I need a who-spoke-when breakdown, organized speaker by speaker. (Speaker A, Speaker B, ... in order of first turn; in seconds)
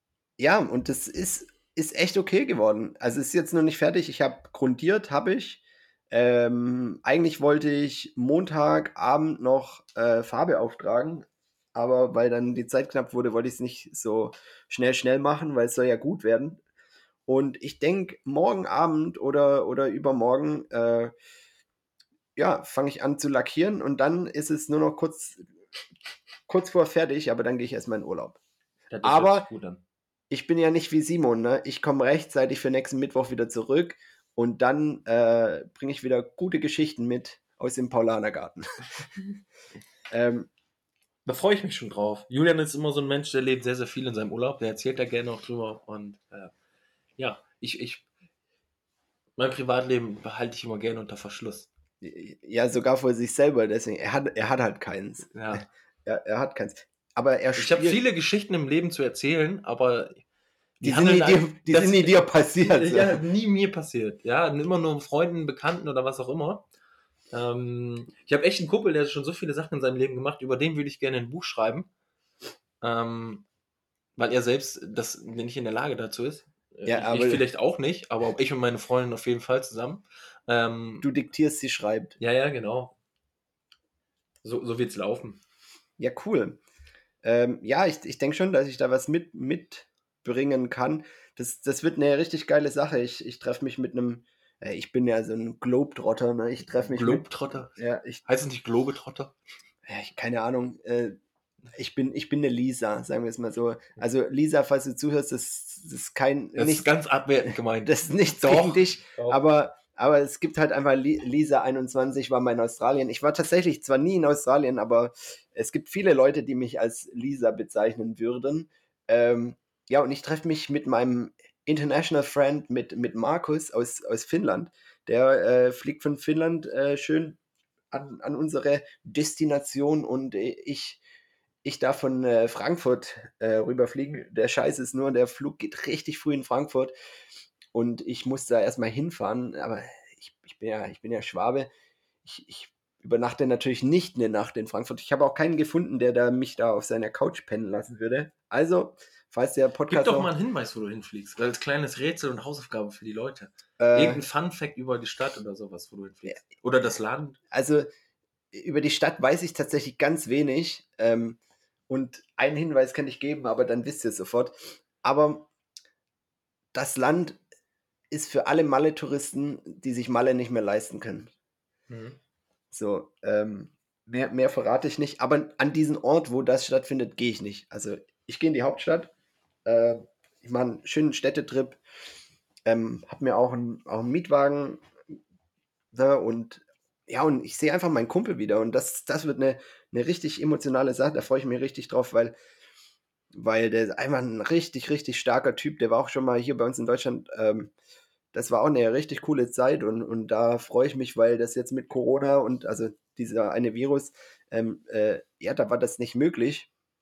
Speaker A: 0.4-16.6, 17.3-21.1, 22.4-25.4, 26.5-28.4, 29.0-29.4, 30.3-38.6, 40.1-40.5, 52.0-58.0, 60.8-63.2, 76.8-77.4, 81.0-82.2, 86.0-86.6, 87.2-98.2, 99.8-101.2, 101.7-106.9, 107.4-127.4, 127.9-131.0, 131.6-136.9, 137.7-141.7, 142.2-150.3, 153.8-154.2, 157.5-157.9, 158.5-165.5, 166.7-167.4, 168.1-171.3, 172.7-179.1, 179.6-181.8, 182.7-184.8, 185.9-192.3, 193.3-197.7, 198.3-206.7
Speaker B: 28.9-29.8, 41.2-46.5, 47.2-48.0, 49.4-51.7, 55.3-55.7, 57.5-60.2, 60.8-66.6, 67.3-71.9, 72.8-73.4, 74.2-81.1, 82.2-82.9, 84.4-85.4, 96.8-97.7, 98.2-99.3, 106.5-109.4, 149.9-157.4, 171.9-172.2